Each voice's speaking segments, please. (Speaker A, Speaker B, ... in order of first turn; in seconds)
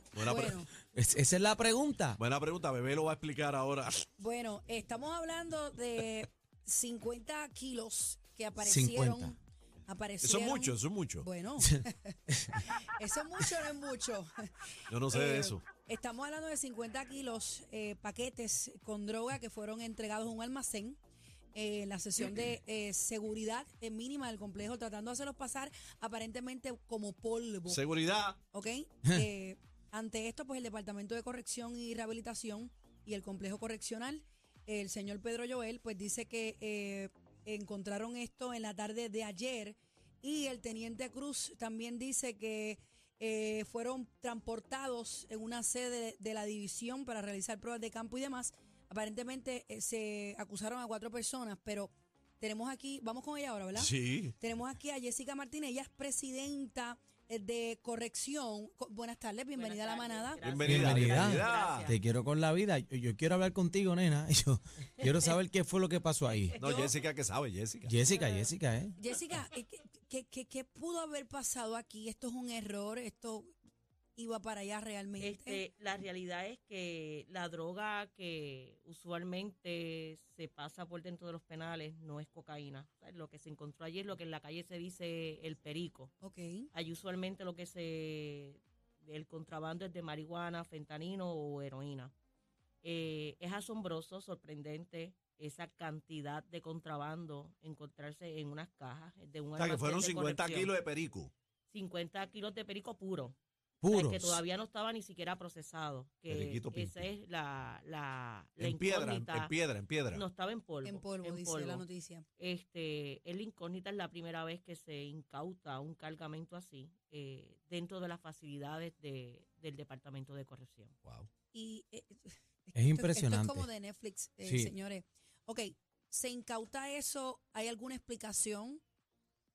Speaker A: 0.1-0.6, 2.2-4.1, 10.2-11.3, 14.9-15.6, 27.7-28.4, 53.8-54.4, 60.4-61.9, 66.6-67.9, 99.6-101.3, 106.3-107.1, 108.6-110.2
Speaker B: 0.2-0.7, 4.2-14.3, 15.1-21.0, 21.5-27.8, 28.5-60.4, 66.6-66.9, 69.0-73.5, 74.2-75.6, 86.2-86.7, 110.8-112.3, 121.5-128.8
Speaker C: 0.9-2.2, 8.6-9.3, 12.3-12.7, 60.6-66.6, 67.9-69.0, 103.8-104.4, 122.8-123.7, 124.4-124.7
Speaker D: 59.5-62.0, 66.4-66.9, 68.1-68.5, 75.2-86.1, 86.7-92.1, 92.8-100.7, 101.7-103.4, 103.9-109.5, 110.1-111.9, 112.4-120.9